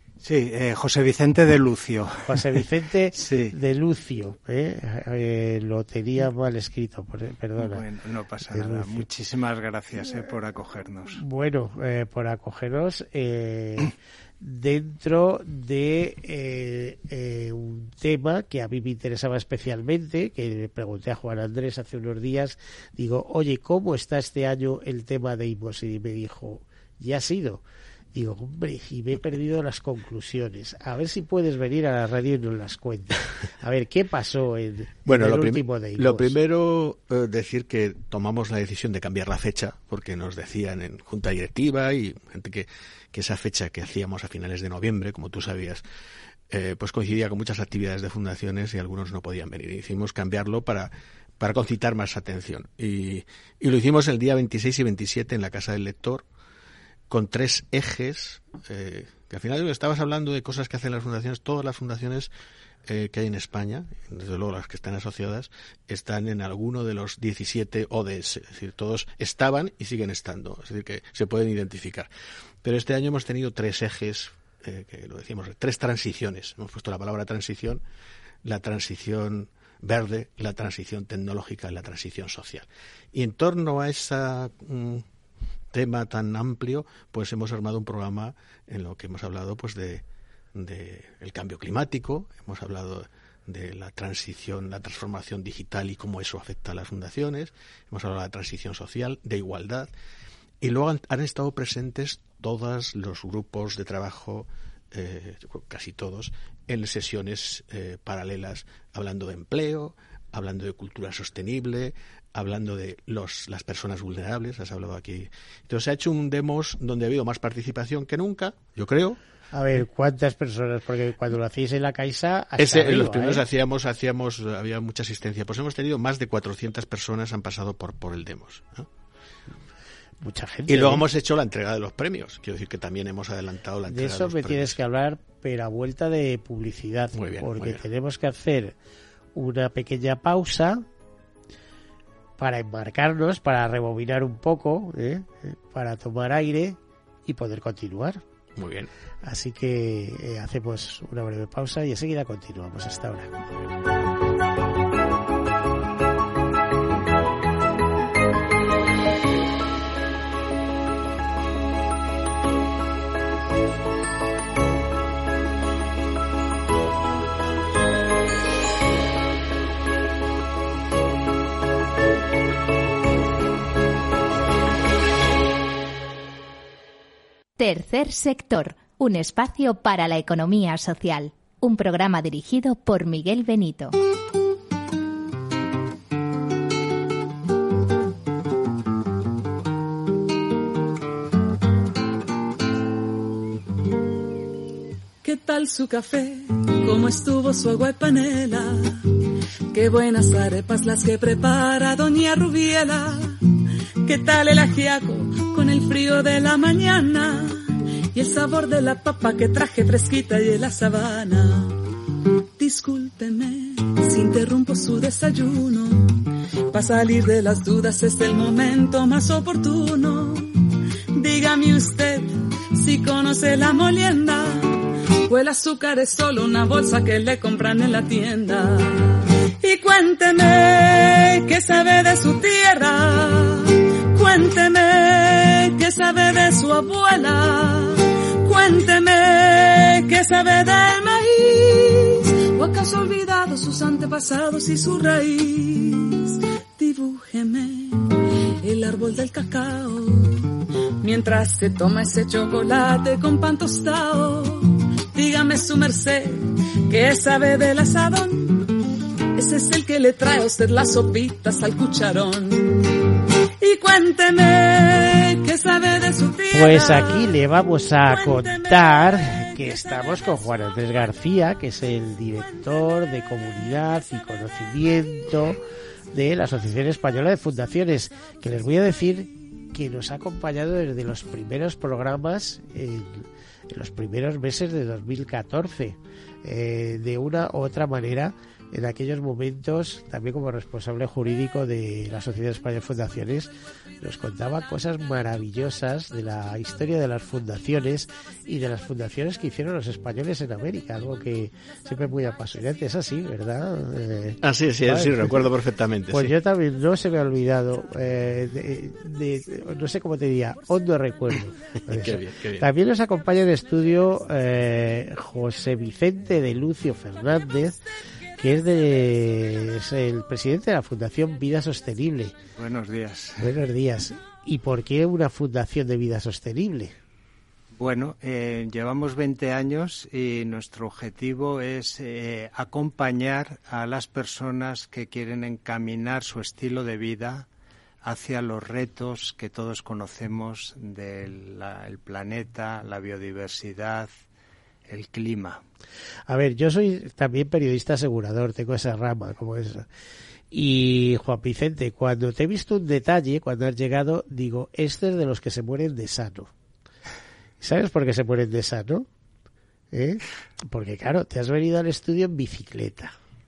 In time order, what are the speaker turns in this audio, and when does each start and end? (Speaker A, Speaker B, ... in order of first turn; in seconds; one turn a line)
Speaker A: 0.2-3.5
Speaker B: 2.3-7.8
Speaker A: 7.6-11.2
Speaker B: 8.5-9.1
Speaker B: 11.2-27.6
Speaker B: 28.1-36.4
Speaker C: 35.0-45.8
Speaker C: 46.5-56.2
Speaker C: 57.1-62.3
Speaker C: 62.9-72.1
Speaker C: 72.6-77.8
Speaker C: 78.4-85.1
Speaker C: 85.7-99.9
Speaker C: 100.6-119.2
Speaker B: 119.5-123.4
Speaker C: 122.6-128.9
Speaker B: 130.2-131.0
Speaker C: 130.7-134.8
Speaker B: 133.9-138.8
Speaker C: 137.1-137.8
Speaker B: 139.3-140.8
Speaker B: 142.4-148.2
Speaker C: 148.6-148.9
Speaker B: 149.2-153.4
Speaker D: 177.6-184.0
Speaker E: 195.2-199.1
Speaker E: 199.7-211.8
Speaker E: 212.6-258.8
Speaker E: 259.4-263.0
Speaker E: 263.6-267.3
Speaker B: 266.5-275.6
Speaker E: 268.1-269.4
Speaker B: 276.1-305.4
Speaker C: 304.4-306.4
Speaker B: 306.1-317.8
Speaker C: 311.9-312.7
Speaker B: 318.4-322.4
Speaker A: 322.6-323.6
Speaker B: 323.4-326.9
Speaker A: 327.7-337.5
Speaker A: 338.0-344.1
Speaker A: 344.9-345.6
Speaker B: 346.3-349.9
Speaker B: 350.5-356.5
Speaker B: 357.6-359.1
Speaker B: 359.9-363.1